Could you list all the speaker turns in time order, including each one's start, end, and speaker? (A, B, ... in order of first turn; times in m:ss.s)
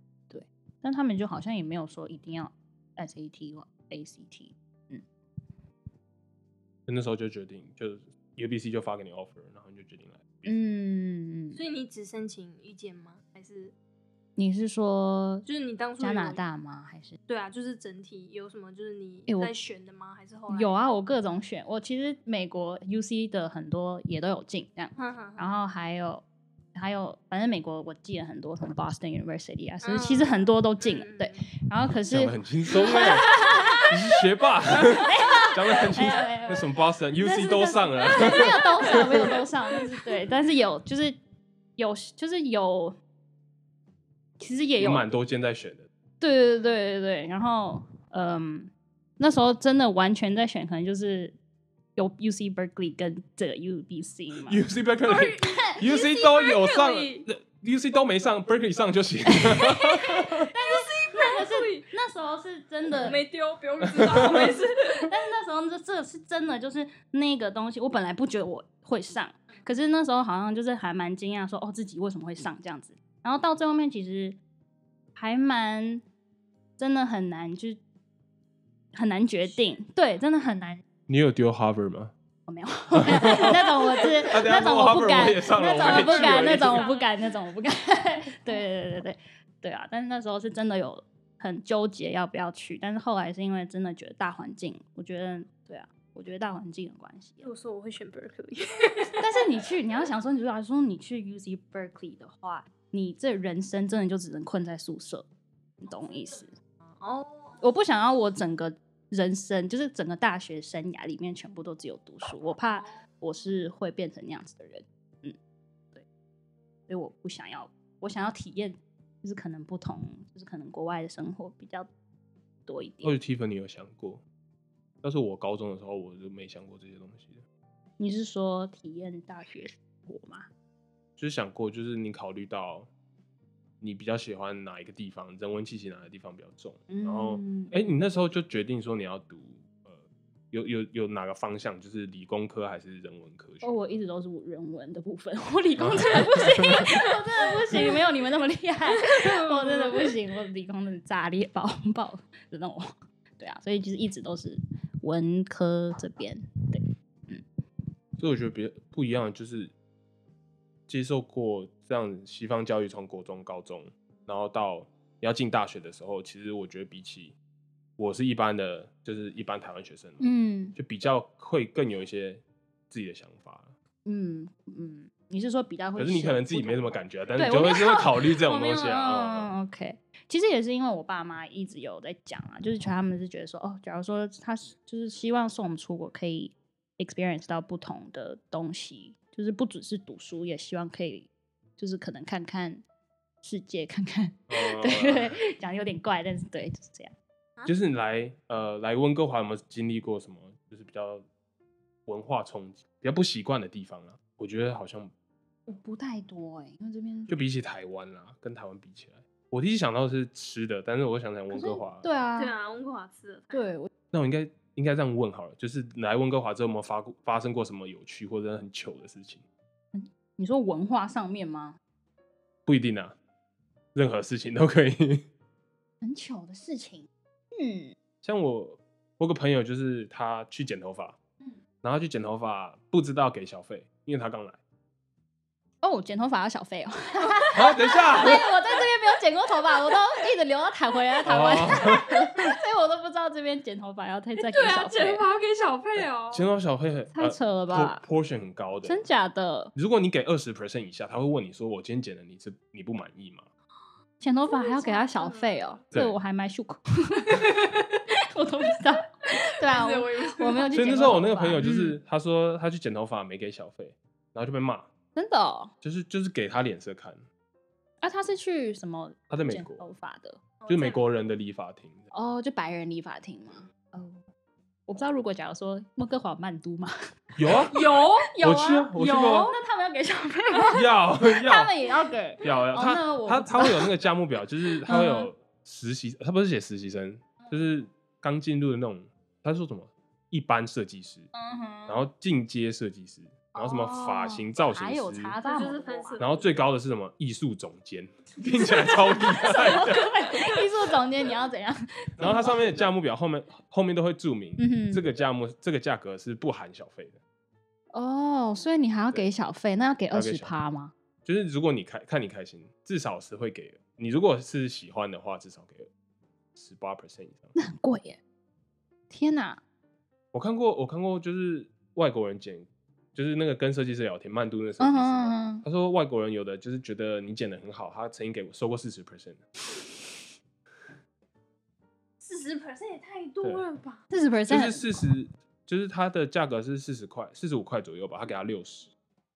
0:00.3-0:05.0 A
0:06.9-0:10.6 B
0:10.4-0:11.6 A
0:11.5-0:13.7 C
0:14.4-0:15.4 A
0:15.4-0:16.4 C
0:16.0-0:17.2 A
0:17.3-0:20.8 C
0:19.3-0:19.5 A
0:20.5-0:33.9 A
0:25.0-0:25.5 C
0:29.8-0:31.4 C
0:32.1-0:33.3 B
0:32.9-0:33.4 C
0:33.9-0:39.3 B
0:35.0-0:41.2 A
0:38.1-0:39.3 C
0:41.8-0:43.0 A
0:44.4-0:45.1 A
0:44.8-0:45.9 B
0:46.2-0:51.3 A
0:52.0-0:54.6 A
0:54.4-1:00.4 B
0:55.0-0:57.3 C
0:55.4-0:55.8 A
1:00.5-1:03.2 A
1:00.6-1:01.9 C
1:03.0-1:05.1 C
1:04.0-1:04.5 B
1:05.0-1:14.4 A
1:15.1-1:16.0 A
1:16.8-1:17.8 A
1:18.9-1:20.8 A
1:21.1-1:22.1 B
1:22.5-1:37.5 A
1:22.9-1:26.8 B
1:25.8-1:27.1 C
1:37.4-1:39.3 C
1:39.2-1:45.2 A
1:45.8-1:46.5 A
1:46.9-1:47.6 C
1:47.6-1:55.4 A
1:56.9-2:01.9 A
2:02.7-2:03.2 A
2:03.0-2:04.2 B
2:05.0-2:07.4 B
2:08.0-2:10.5 A
2:11.2-2:12.9 B
2:13.8-2:23.7 B
2:16.9-2:17.7 A
2:23.6-2:37.4 A
2:25.8-2:26.6 B
2:28.9-2:30.1 C
2:38.2-2:39.7 B
2:40.9-2:47.4 B
2:48.0-2:53.7 B
2:50.2-2:50.8 A
2:54.0-3:12.8 A
2:56.0-2:59.5 B
2:58.6-2:58.9 C
3:13.4-3:17.1 A
3:14.5-3:15.4 B
3:17.6-3:21.2 B
3:22.0-3:25.1 B
3:25.7-3:27.4 A
3:27.3-3:32.1 B
3:31.5-3:32.5 A
3:32.4-3:33.7 C
3:33.5-3:33.9 A
3:34.1-3:39.4 B
3:39.9-3:41.8 A
3:42.6-3:43.2 B
3:43.9-3:45.2 B
3:46.0-3:47.9 A
3:48.2-3:51.2 B
3:51.8-3:54.6 B
3:55.8-4:05.2 A
3:57.5-3:58.4 B
4:01.2-4:02.5 B
4:04.4-4:06.5 C
4:06.3-4:09.1 B
4:07.1-4:08.0 A
4:08.8-4:09.7 A
4:09.7-4:13.5 B
4:14.2-4:17.8 A
4:14.5-4:15.6 C
4:15.9-4:16.2 B
4:18.3-4:21.9 A
4:19.6-4:21.7 C
4:20.7-4:24.9 B
4:25.1-4:25.7 A
4:25.8-4:27.2 B
4:28.0-4:30.4 A
4:29.3-4:29.8 B
4:30.6-4:31.0 C
4:30.7-4:32.1 B
4:32.1-4:34.2 A
4:34.9-4:36.9 A
4:37.4-4:37.8 B
4:37.7-4:38.4 C
4:37.9-4:40.8 A
4:38.4-4:39.5 B
4:40.7-4:41.7 B
4:41.4-4:43.9 A
4:42.4-4:51.3 B
4:44.9-4:45.3 A
4:51.3-4:52.1 A
4:51.9-4:55.4 B
4:53.6-4:56.2 A
4:55.4-4:56.6 C
4:56.2-5:00.1 B
4:58.5-5:02.6 A
5:02.2-5:07.2 B
5:04.6-5:05.0 A
5:07.9-5:10.9 A
5:10.1-5:10.5 B
5:11.2-5:15.9 B
5:16.5-5:17.5 B
5:17.6-5:18.2 A
5:19.1-5:19.6 A
5:20.3-5:29.4 B
5:24.8-5:25.6 A
5:32.2-5:34.1 C
5:34.1-5:35.1 A
5:34.5-5:38.9 B